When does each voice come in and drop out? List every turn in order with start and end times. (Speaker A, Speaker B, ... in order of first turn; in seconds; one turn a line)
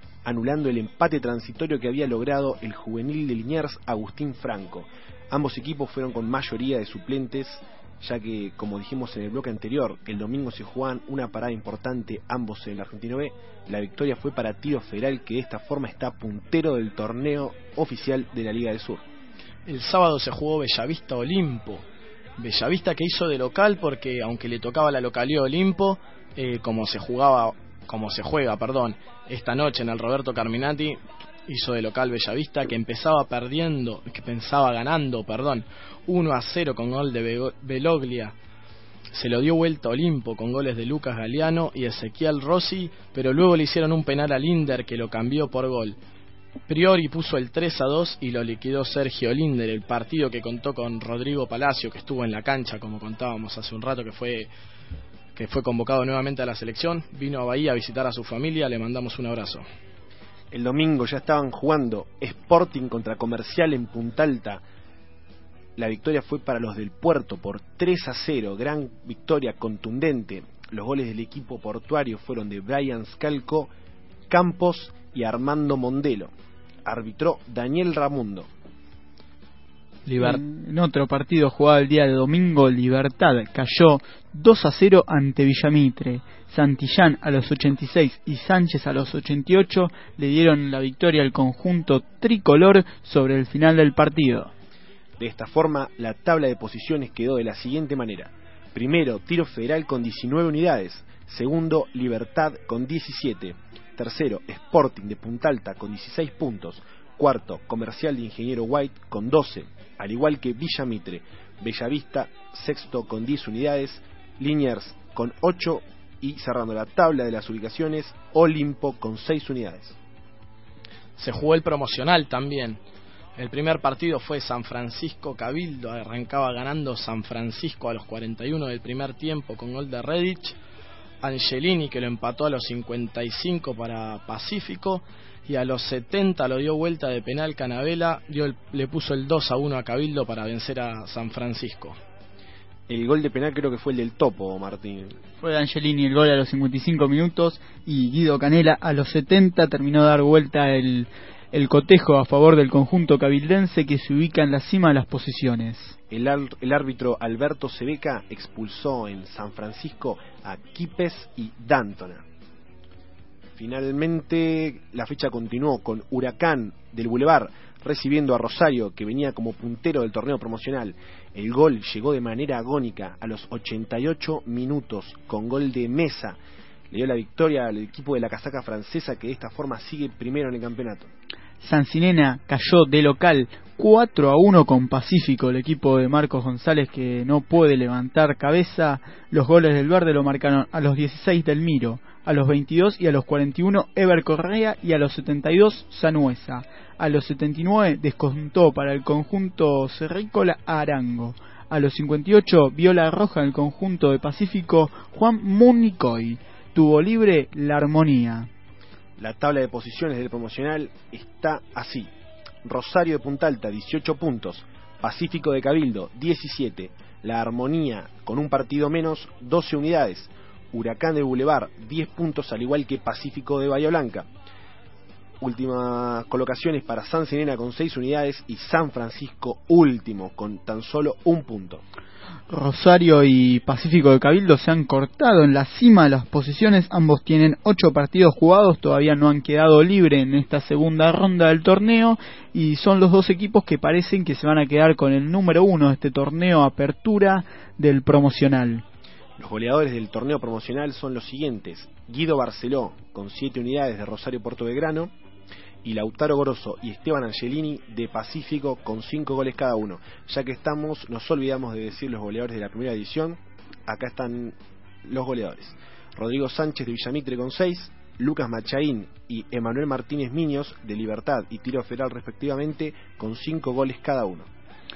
Speaker A: 0.2-19.1
Speaker B: 19.7-21.8
Speaker B: 22.4-38.3
Speaker B: 39.1-46.0
Speaker B: 46.7-54.5
Speaker B: 55.4-59.6
Speaker A: 60.5-64.6
Speaker A: 65.8-73.7
Speaker A: 74.3-76.3
Speaker A: 76.8-78.5
Speaker C: 80.1-94.5
Speaker A: 95.2-120.0
Speaker B: 121.2-122.8
Speaker B: 123.4-130.6
Speaker B: 131.2-142.0
Speaker A: 142.9-145.2
Speaker C: 145.4-155.9
Speaker A: 156.1-162.2
Speaker A: 163.6-176.4
Speaker A: 176.9-181.1
Speaker C: 181.6-208.5
Speaker A: 209.2-212.1
Speaker A: 212.6-224.3
Speaker A: 225.4-231.8
Speaker C: 232.5-248.8
Speaker A: 249.4-255.1
Speaker A: 255.8-274.5